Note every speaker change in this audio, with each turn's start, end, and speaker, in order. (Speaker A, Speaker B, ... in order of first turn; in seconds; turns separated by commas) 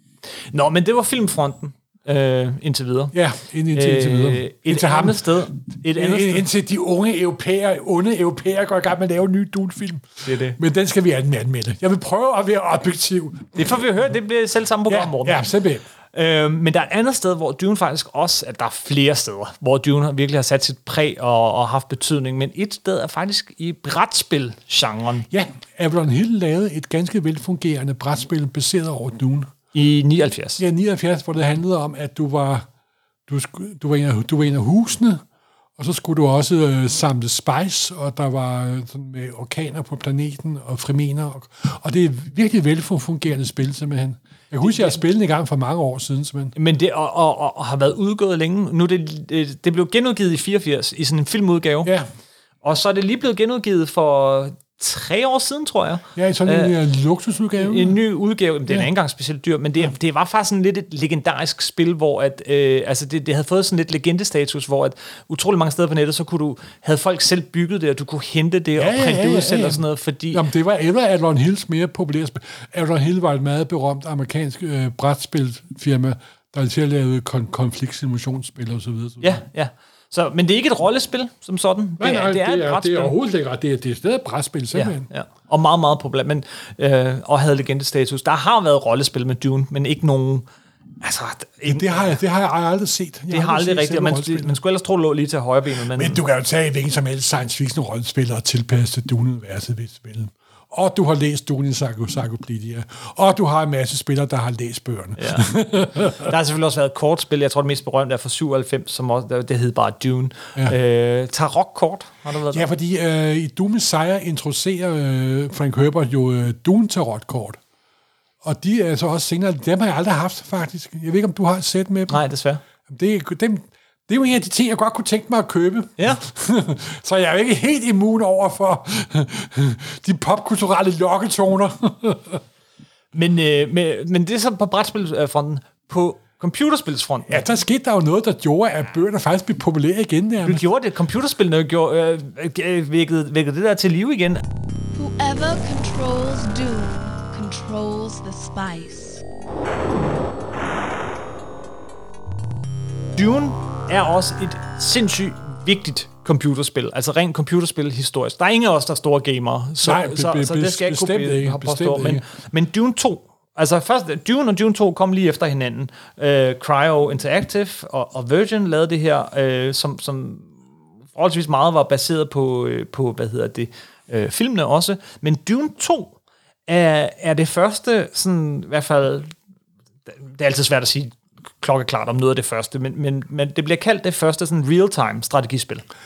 Speaker A: 0.5-3.1, Speaker B: 3.1-5.3, Speaker A: 3.7-6.4, Speaker B: 6.0-13.8, Speaker A: 10.2-10.6, Speaker A: 13.6-15.4, Speaker B: 14.9-15.8, Speaker A: 16.1-25.3, Speaker B: 25.3-29.5, Speaker A: 29.7-30.6, Speaker B: 30.6-32.7, Speaker B: 33.3-35.2, Speaker B: 35.8-46.5, Speaker A: 44.6-45.0, Speaker A: 46.5-51.9, Speaker A: 52.6-56.7, Speaker B: 56.1-58.0, Speaker A: 57.6-70.4, Speaker B: 68.8-79.4, Speaker A: 79.2-83.2, Speaker B: 82.0-85.1, Speaker A: 84.7-90.5, Speaker A: 91.0-92.1, Speaker B: 91.7-94.5, Speaker A: 93.3-96.2, Speaker B: 95.9-106.3, Speaker A: 105.2-105.5, Speaker A: 106.0-112.7, Speaker B: 112.5-117.6, Speaker B: 118.4-122.2, Speaker A: 122.1-122.6, Speaker B: 122.9-132.4, Speaker A: 133.1-137.5, Speaker B: 137.3-140.7, Speaker A: 140.4-144.4, Speaker C: 145.0-149.2, Speaker A: 153.2-170.5, Speaker B: 159.8-162.2, Speaker A: 171.2-176.2, Speaker A: 176.7-179.3, Speaker A: 180.2-185.9